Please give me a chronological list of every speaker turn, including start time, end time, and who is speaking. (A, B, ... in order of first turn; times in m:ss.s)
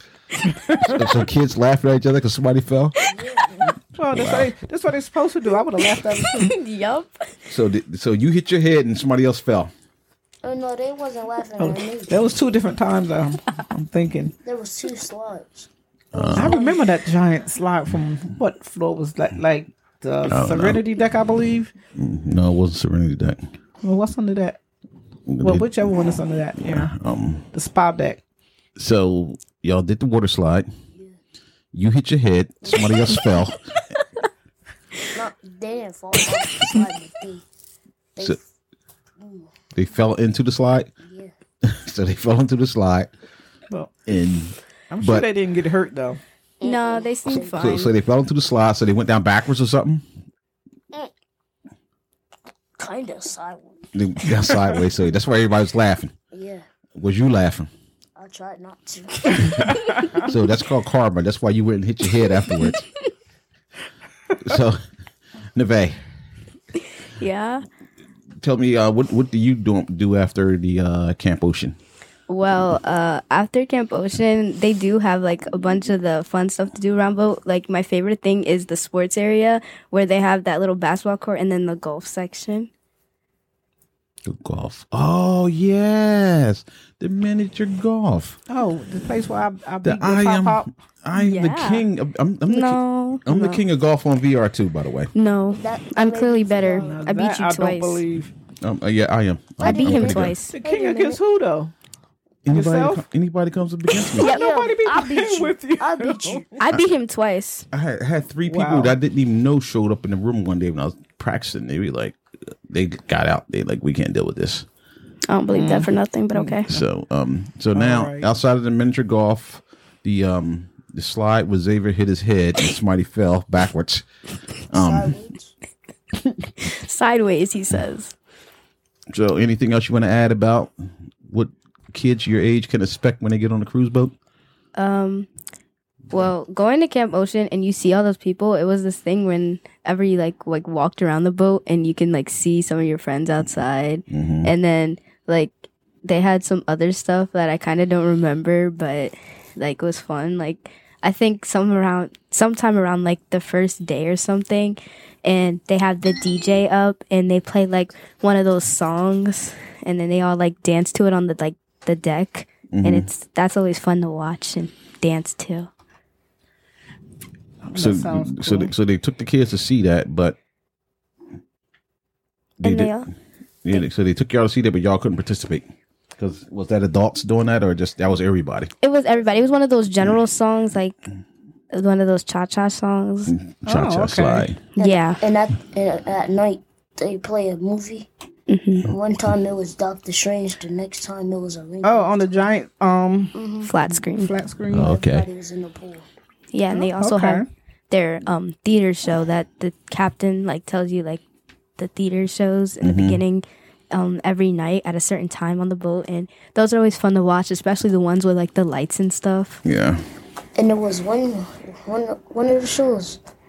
0:00.5-0:00.9 A
0:00.8-0:02.9 B
0:03.1-0:03.6 C
0:04.0-0:06.5 A
0:04.1-0:04.5 B
0:06.0-0:07.5 D
0:07.5-0:09.7 B
0:10.4-0:12.2 C
0:11.6-0:14.3 A
0:14.4-0:16.8 C
0:16.1-0:16.6 B
0:16.3-0:21.7 A
0:20.3-0:20.8 B
0:21.9-0:23.5 B
0:23.8-0:24.6 A
0:25.3-0:25.7 B
0:25.4-0:26.9 A
0:26.6-0:27.4 B
0:27.5-0:28.2 A
0:28.8-0:30.7 B
0:31.7-0:33.6 B
0:35.1-0:37.4 C
0:36.3-0:36.8 D
0:38.2-0:38.4 C
0:39.2-0:39.5 C
0:39.7-0:40.9 B
0:41.0-0:41.3 C
0:41.6-0:43.1 B
0:44.0-0:45.3 B
0:44.9-0:46.2 A
0:46.6-0:47.7 C
0:46.6-0:47.9 D
0:47.6-0:50.0 B
0:52.8-0:53.8 C
0:53.9-0:56.1 B
0:56.3-0:56.6 C
0:57.0-0:57.7 B
0:58.2-0:59.6 C
1:00.0-1:02.8 B
1:04.4-1:04.8 B
1:05.5-1:06.0 B
1:07.0-1:07.6 D
1:08.4-1:11.8 B
1:12.3-1:22.7 D
1:24.2-1:28.4 B
1:28.5-1:30.7 A
1:29.8-1:35.1 B
1:31.1-1:31.9 D
1:32.5-1:33.6 D
1:35.1-1:38.0 D
1:35.5-1:37.0 C
1:36.7-1:38.3 A
1:38.6-1:40.4 B
1:39.6-1:41.2 C
1:39.6-1:40.6 D
1:40.5-1:41.7 A
1:42.4-1:44.3 B
1:42.5-1:43.0 A
1:44.1-1:46.6 A
1:44.2-1:44.5 D
1:44.2-1:46.5 C
1:46.6-1:47.6 D
1:47.7-1:52.2 B
1:48.4-1:49.0 A
1:52.7-1:54.6 B
1:55.3-1:56.7 D
1:55.5-1:56.7 A
1:56.7-2:04.0 B
1:57.7-1:58.3 A
2:04.7-2:05.2 B
2:04.7-2:05.5 C
2:06.4-2:08.1 D
2:09.1-2:10.7 B
2:11.2-2:14.1 B
2:14.8-2:15.3 D
2:16.1-2:45.7 D
2:24.1-2:24.5 B
2:42.7-2:43.1 B
2:47.6-2:48.7 A
2:47.7-2:50.4 B
2:52.6-2:53.1 D
2:52.6-2:53.0 B
2:53.6-2:58.7 B
2:58.8-3:01.0 D
3:01.7-3:03.3 D
3:03.3-3:04.6 B
3:03.6-3:04.5 A
3:04.8-3:05.2 D
3:04.8-3:08.1 C
3:08.5-3:08.9 D
3:08.8-3:12.4 C
3:11.8-3:13.4 A
3:13.3-3:13.7 C
3:13.6-3:14.3 D
3:14.0-3:14.9 A
3:14.7-3:15.3 B
3:14.7-3:16.1 C
3:16.5-3:21.2 D
3:16.7-3:17.5 A
3:21.8-3:29.6 D
3:22.8-3:23.2 B
3:29.6-3:30.0 B
3:30.6-3:33.2 C